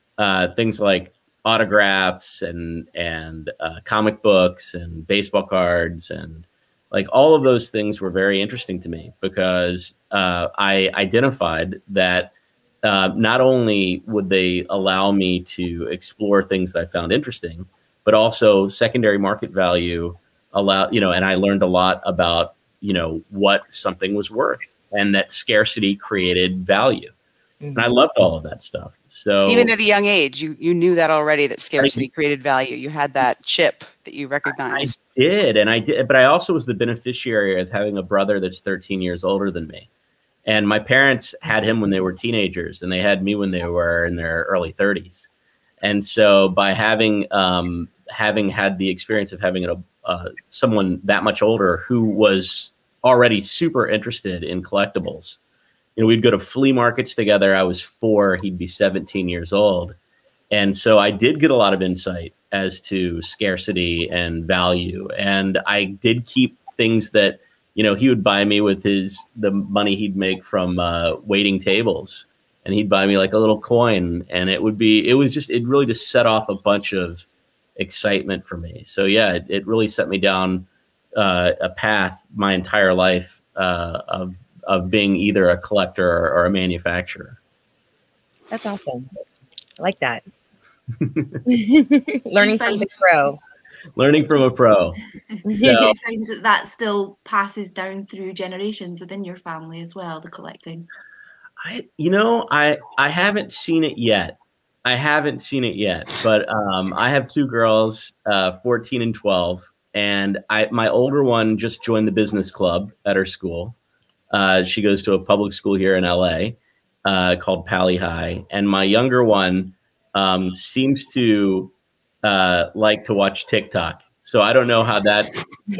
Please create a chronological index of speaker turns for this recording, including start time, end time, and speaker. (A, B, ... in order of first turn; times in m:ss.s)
0:00.2-0:27.1 A
0:27.6-0:28.0 B
0:27.8-0:29.7 A
0:29.4-0:34.9 C
0:31.8-0:32.0 A
0:34.7-0:39.9 A
0:40.4-0:45.3 A
0:45.8-0:55.4 A
0:56.0-1:00.0 A
1:00.5-1:17.2 A
1:17.8-1:27.4 A
1:28.5-1:29.1 B
1:29.8-1:30.2 B
1:31.0-1:31.4 A
1:31.4-1:33.4 B
1:32.3-1:33.0 D
1:34.0-1:35.0 A
1:35.4-1:40.9 D
1:35.5-1:35.8 B
1:35.6-1:36.0 A
1:41.6-1:53.8 A
1:54.3-2:01.7 A
2:02.2-2:05.4 A